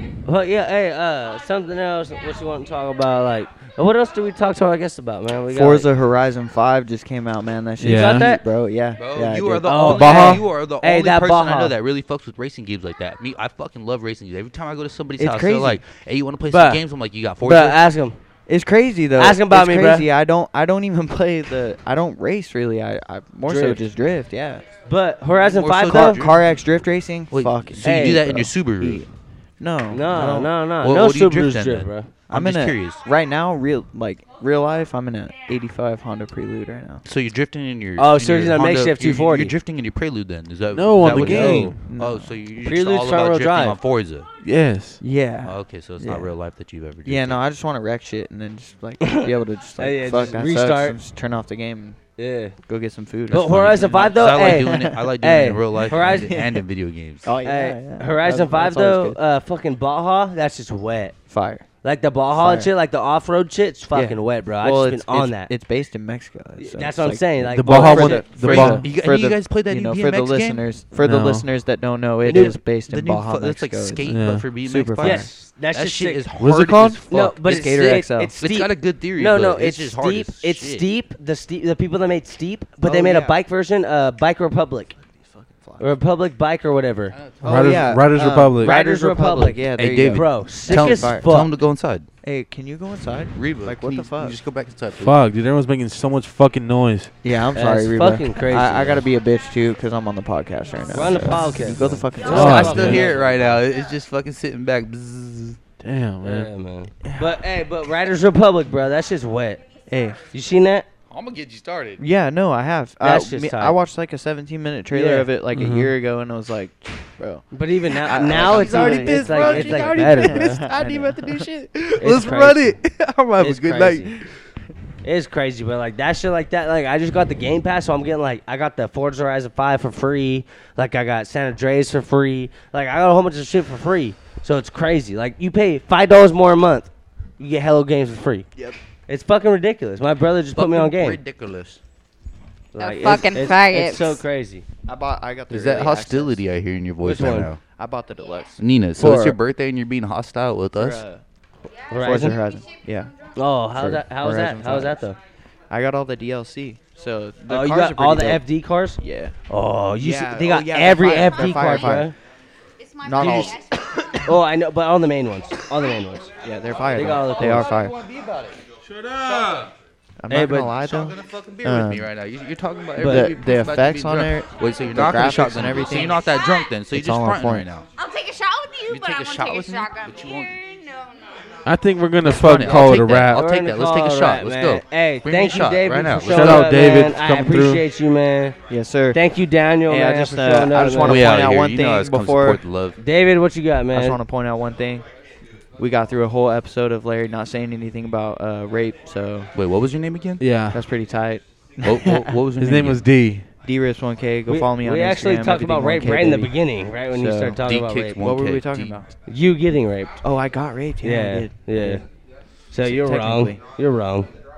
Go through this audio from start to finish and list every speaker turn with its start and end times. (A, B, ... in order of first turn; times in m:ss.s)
0:00.2-0:05.9 A
0:05.5-0:09.9 B
0:07.8-0:08.3 C
0:07.8-0:08.4 A
0:09.0-0:17.9 D
0:09.6-0:11.8 A
0:09.8-0:10.4 C
0:15.2-0:15.8 B
0:16.5-0:16.8 A
0:17.4-0:18.2 A
0:18.5-0:24.7 B
0:19.2-0:20.1 A
0:23.5-0:23.8 A
0:24.9-0:26.2 A
0:25.4-0:26.5 D
0:25.8-0:29.1 B
0:27.3-0:29.1 D
0:27.8-0:28.2 A
0:29.6-0:30.6 B
0:29.9-0:32.1 A
0:30.8-0:33.0 D
0:32.3-0:37.0 B
0:37.0-0:44.3 D
0:38.0-0:39.5 A
0:40.7-0:41.9 C
0:41.0-0:41.8 A
0:41.7-0:42.4 B
0:42.6-0:43.8 A
0:44.4-0:45.0 C
0:45.0-0:46.3 B
0:45.4-0:47.4 D
0:47.0-0:52.0 B
0:49.0-0:51.0 A
0:52.2-0:52.6 A
0:52.6-0:55.0 B
0:53.3-0:56.4 A
0:53.3-0:57.3 D
0:55.9-0:56.6 B
0:57.2-0:59.2 B
0:57.4-1:01.2 A
1:01.3-1:01.7 B
1:01.8-1:05.5 A
1:02.3-1:02.7 B
1:03.9-1:15.3 B
1:06.6-1:08.4 A
1:07.6-1:08.9 C
1:08.3-1:10.6 D
1:11.0-1:11.5 C
1:12.2-1:12.6 A
1:12.3-1:20.9 D
1:14.1-1:14.5 C
1:15.0-1:16.2 A
1:16.4-1:17.0 C
1:17.1-1:25.0 A
1:17.3-1:18.3 B
1:22.8-1:23.4 B
1:25.4-1:25.9 B
1:25.8-1:27.2 A
1:27.1-1:27.9 D
1:27.4-1:31.4 B
1:27.4-1:28.7 C
1:28.6-1:31.5 A
1:29.8-1:32.1 D
1:32.2-1:34.4 B
1:33.3-1:35.2 D
1:35.0-1:37.1 C
1:37.2-1:42.8 B
1:37.5-1:39.0 A
1:40.9-1:43.6 A
1:41.8-1:45.6 D
1:42.3-1:43.1 C
1:45.8-1:46.5 C
1:46.2-1:49.6 A
1:47.0-1:47.4 B
1:49.9-1:50.2 B
1:50.3-1:50.9 A
1:51.1-1:52.0 D
1:52.0-2:01.5 B
1:53.0-1:53.8 A
1:54.9-1:55.3 A
1:55.5-1:56.0 C
1:57.5-2:00.6 A
1:58.1-2:04.2 D
2:02.0-2:02.6 A
2:03.4-2:04.1 A
2:05.0-2:18.5 A
2:19.1-2:21.2 A
2:20.5-2:21.8 D
2:22.7-2:24.6 A
2:22.8-2:24.2 E
2:24.9-2:26.4 B
2:25.5-2:27.6 D
2:27.0-2:27.5 A
2:27.8-2:29.4 B
2:28.6-2:31.0 D
2:30.7-2:31.2 B
2:31.9-2:32.4 A
2:32.0-2:33.1 B
2:33.4-2:35.2 A
2:33.8-2:35.1 B
2:35.7-2:38.5 B
2:37.5-2:42.2 A
2:39.0-2:39.4 B
2:40.0-2:42.1 B
2:41.6-2:42.0 E
2:42.8-2:44.3 E
2:43.0-2:44.2 B
2:44.1-2:46.3 A
2:46.4-2:48.0 B
2:46.9-2:47.7 A
2:47.2-2:49.7 D
2:50.2-2:52.1 B
2:50.3-2:50.7 A
2:50.8-2:57.9 D
2:53.0-2:53.3 A
2:53.0-2:56.2 B
2:56.0-2:56.8 E
2:56.9-2:57.7 B
2:58.0-3:01.4 E
2:58.9-3:00.6 D
3:01.6-3:03.4 C
3:02.2-3:06.9 D
3:02.6-3:02.9 E
3:03.2-3:08.6 A
3:06.3-3:07.8 C
3:08.7-3:09.2 B
3:09.1-3:11.3 A
3:09.8-3:12.6 B
3:11.0-3:13.0 D
3:13.0-3:14.2 A
3:13.9-3:15.1 B
3:15.8-3:19.5 B
3:19.5-3:20.4 D
3:20.4-3:20.8 C
3:20.6-3:22.4 B
3:21.8-3:23.1 D
3:22.6-3:23.5 C
3:23.6-3:29.1 B
3:24.5-3:28.2 A
3:27.6-3:29.0 D
3:29.3-3:30.2 A
3:30.2-3:32.0 B
3:31.0-3:32.0 A
3:32.7-3:34.3 A
3:32.7-3:33.6 B